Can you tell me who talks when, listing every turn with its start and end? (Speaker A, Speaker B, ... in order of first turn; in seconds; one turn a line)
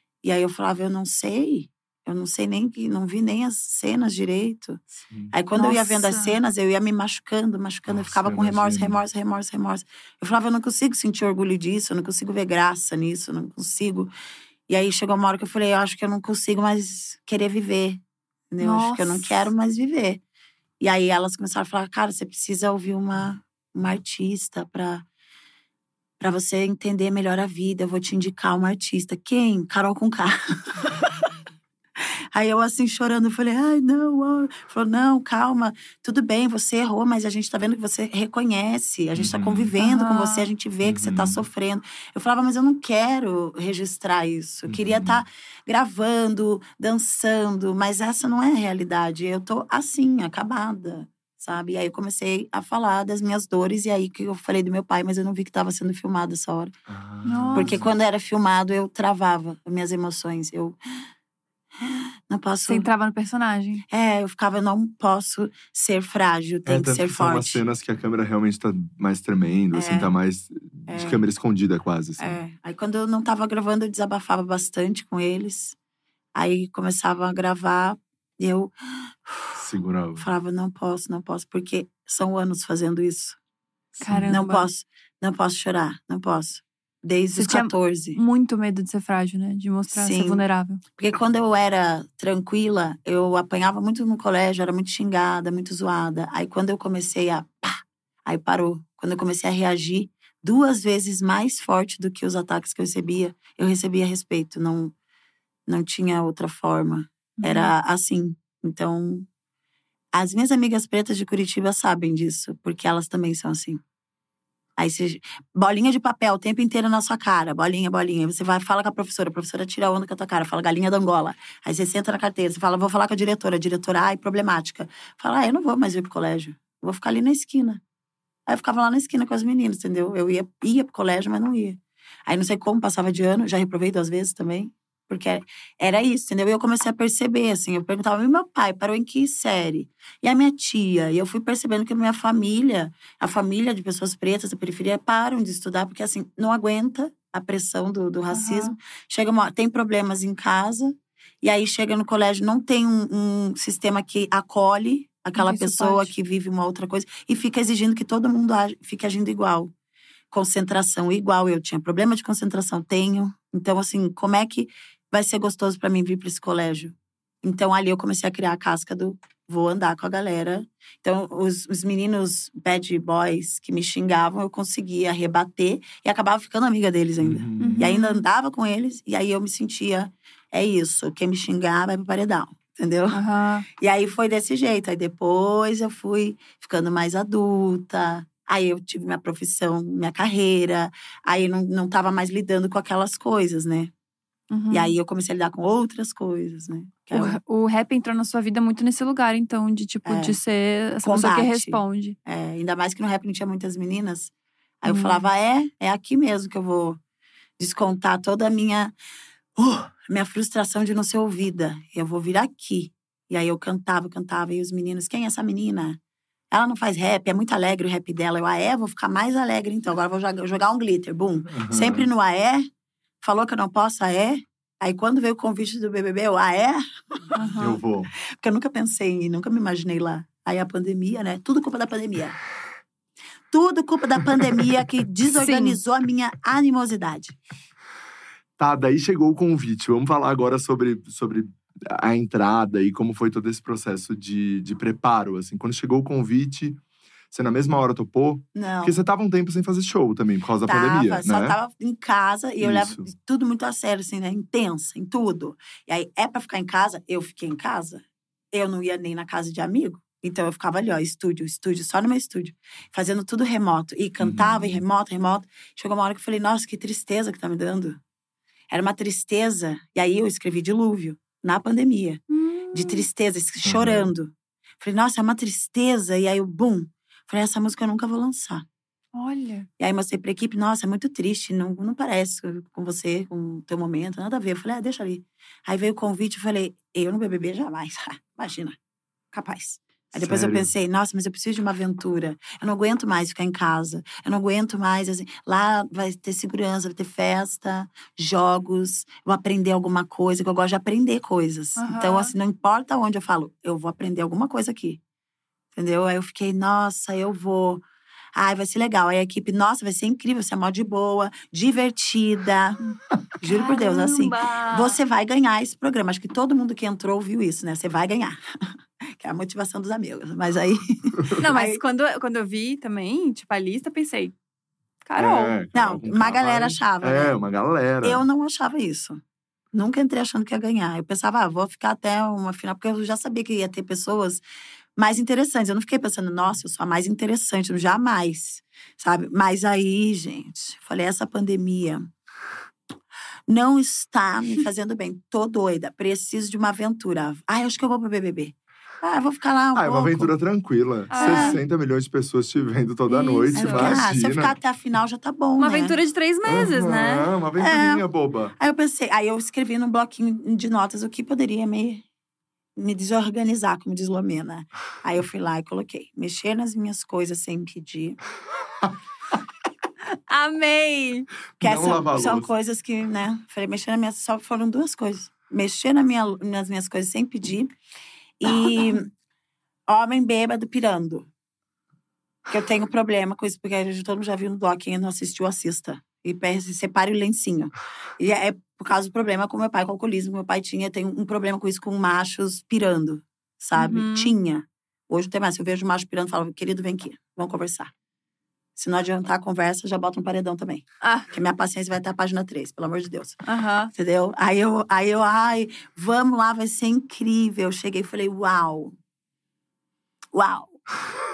Speaker A: 0.2-14.1
Speaker B: 5.0-5.3
Speaker C: 5.5-6.4
Speaker B: 7.9-9.0
Speaker A: 14.7-18.0
Speaker A: 18.5-20.2
Speaker C: 18.6-19.5
Speaker A: 20.8-25.0
Speaker A: 26.2-31.3
Speaker A: 32.0-56.7
Speaker B: 39.1-39.7
Speaker C: 39.8-40.5
Speaker B: 40.8-41.4
Speaker B: 44.7-45.2
Speaker B: 56.9-57.9
Speaker C: 57.2-57.7
Speaker A: 57.5-60.8
Speaker A: 61.8-62.9
Speaker C: 62.6-63.8
Speaker A: 63.9-67.6
Speaker B: 66.7-72.4
Speaker A: 69.7-70.1
Speaker A: 70.9-71.2
Speaker A: 72.2-75.8
Speaker A: 76.3-79.6
Speaker B: 79.5-80.3
Speaker A: 80.2-83.4
Speaker C: 84.0-84.7
Speaker B: 84.1-84.4
Speaker A: 84.3-88.2
Speaker C: 87.4-90.8
Speaker A: 89.9-90.4
Speaker A: 91.0-104.9
Speaker A: 105.7-109.3
Speaker C: 107.4-107.7
Speaker A: 110.2-113.8
Speaker A: 114.8-127.8
Speaker A: 128.5-159.7
Speaker C: 148.3-148.8
Speaker C: 155.4-156.1
Speaker A: 160.3-183.2
Speaker B: 177.2-177.9
Speaker C: 177.6-178.2
Speaker C: 183.1-183.7
Speaker A: 183.8-193.9
Speaker C: 194.5-194.9
Speaker A: 194.7-197.4
Speaker C: 197.1-202.2
Speaker A: 200.1-200.4
Speaker A: 201.0-207.0
Speaker C: 204.9-205.2
Speaker A: 207.6-208.9
Speaker A: 209.6-216.0
Speaker A: 216.5-222.6
Speaker B: 221.5-222.1
Speaker A: 223.2-226.8
Speaker C: 227.4-227.8
Speaker B: 227.6-228.1
Speaker A: 228.4-232.4
Speaker A: 233.5-237.3
Speaker C: 235.4-235.8
Speaker B: 238.6-246.8
Speaker B: 247.3-251.6
Speaker A: 248.6-249.0
Speaker A: 250.7-268.0
Speaker B: 252.6-253.0
Speaker B: 264.2-264.8
Speaker A: 268.7-278.6
Speaker C: 272.3-273.1
Speaker B: 273.6-274.1
Speaker C: 279.1-279.7
Speaker A: 279.8-288.8
Speaker A: 289.3-305.0
Speaker B: 290.1-290.7
Speaker C: 301.8-302.3
Speaker A: 305.8-307.8
Speaker A: 308.4-312.9
Speaker A: 313.4-321.8
Speaker C: 313.4-315.0
Speaker C: 321.4-324.3
Speaker C: 325.1-325.6
Speaker B: 325.2-328.2
Speaker A: 325.7-327.4
Speaker A: 328.0-329.2
Speaker A: 329.7-334.4
Speaker A: 335.0-342.1
Speaker A: 343.5-350.3
Speaker B: 349.8-354.6
Speaker C: 351.1-351.6
Speaker A: 351.1-351.6
Speaker C: 353.1-354.0
Speaker A: 353.6-355.9
Speaker C: 355.6-357.3
Speaker B: 356.5-358.6
Speaker A: 357.6-358.1
Speaker A: 358.6-362.0
Speaker A: 362.8-368.2
Speaker C: 370.3-371.3
Speaker B: 371.6-372.5
Speaker A: 371.6-377.7
Speaker A: 378.4-379.1
Speaker C: 378.5-378.9
Speaker A: 379.9-381.3
Speaker A: 382.5-397.9
Speaker C: 393.8-394.3
Speaker A: 398.8-403.4
Speaker C: 401.0-401.3
Speaker C: 403.5-403.9
Speaker A: 403.9-408.9
Speaker A: 410.3-410.8